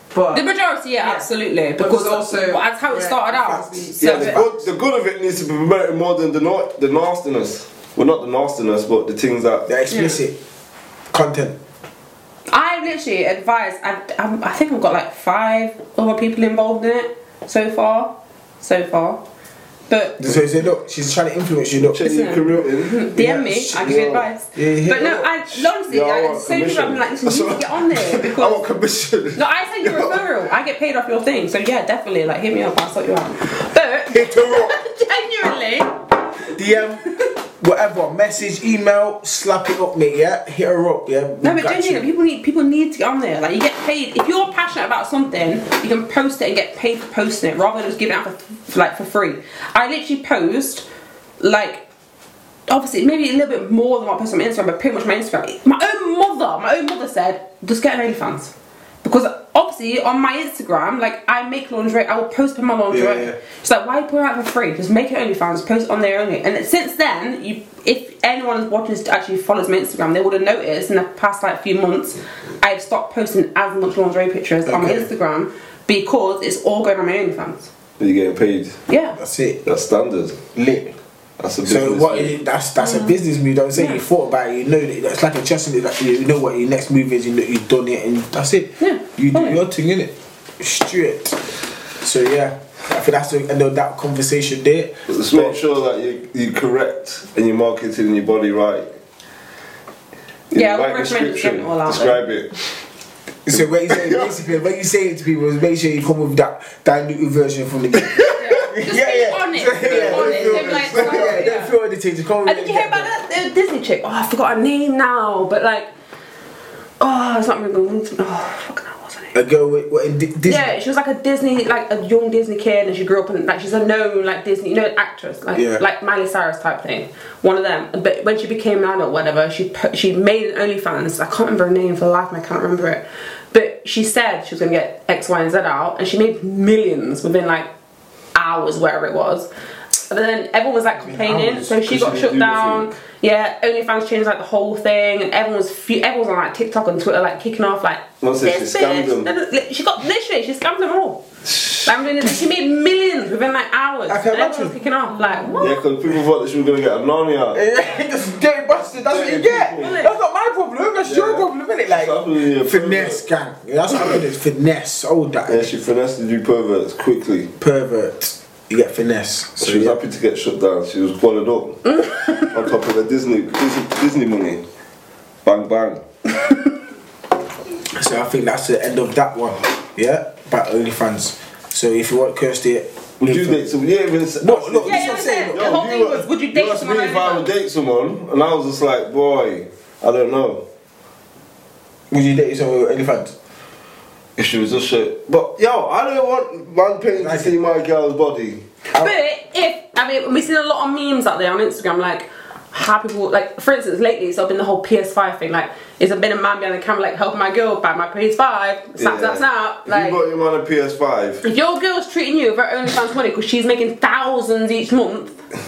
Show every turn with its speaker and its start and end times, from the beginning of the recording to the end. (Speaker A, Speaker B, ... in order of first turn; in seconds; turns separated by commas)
Speaker A: 0.1-0.5, Speaker B: 0.3-4.4, Speaker A: 1.0-4.3, Speaker C: 4.0-4.5, Speaker D: 4.0-9.7, Speaker C: 9.7-10.3, Speaker B: 9.9-10.2, Speaker C: 11.1-11.6, Speaker B: 12.5-19.2, Speaker B: 19.9-20.2, Speaker C: 20.2-25.3, Speaker D: 21.8-23.1, Speaker B: 22.1-28.6, Speaker D: 23.8-24.2, Speaker D: 25.5-30.2, Speaker B: 29.4-36.0, Speaker C: 34.1-34.7, Speaker C: 36.5-42.1, Speaker B: 41.4-50.9, Speaker B: 51.4-51.9, Speaker B: 52.7-77.7, Speaker C: 62.9-63.4, Speaker C: 74.7-75.1, Speaker D: 78.0-78.8, Speaker B: 78.9-79.2, Speaker C: 79.1-79.6, Speaker D: 79.6-80.4, Speaker C: 80.5-80.9, Speaker D: 81.4-82.4, Speaker C: 81.6-91.4, Speaker B: 88.8-89.6, Speaker C: 92.0-95.6, Speaker D: 95.1-98.9, Speaker D: 100.5-102.6, Speaker B: 100.5-102.2, Speaker C: 103.5-113.1, Speaker D: 103.5-104.3, Speaker D: 108.2-108.7, Speaker B: 108.3-111.7, Speaker D: 109.8-111.4, Speaker B: 112.4-115.9, Speaker B: 117.0-119.3, Speaker C: 119.3-120.7, Speaker B: 120.5-137.7, Speaker C: 125.5-125.8, Speaker B: 138.3-139.5, Speaker B: 140.1-151.2, Speaker C: 141.0-142.2, Speaker D: 141.9-142.9, Speaker D: 148.2-149.3, Speaker D: 151.5-151.8, Speaker B: 151.8-155.7, Speaker C: 154.1-154.7, Speaker A: 155.1-155.7, Speaker D: 155.6-157.6, Speaker C: 157.5-165.7, Speaker D: 158.9-160.1, Speaker B: 159.8-160.1, Speaker D: 161.0-163.2, Speaker D: 165.5-167.5, Speaker C: 167.6-170.0, Speaker D: 169.6-174.6, Speaker B: 171.9-172.5, Speaker D: 175.4-176.0, Speaker C: 177.9-183.6, Speaker D: 183.2-190.6, Speaker C: 184.4-185.7, Speaker B: 184.8-187.5, Speaker C: 192.1-193.3, Speaker D: 194.4-198.6, Speaker C: 197.1-197.5, Speaker B: 198.9-210.2, Speaker D: 209.0-211.4, Speaker B: 211.4-215.4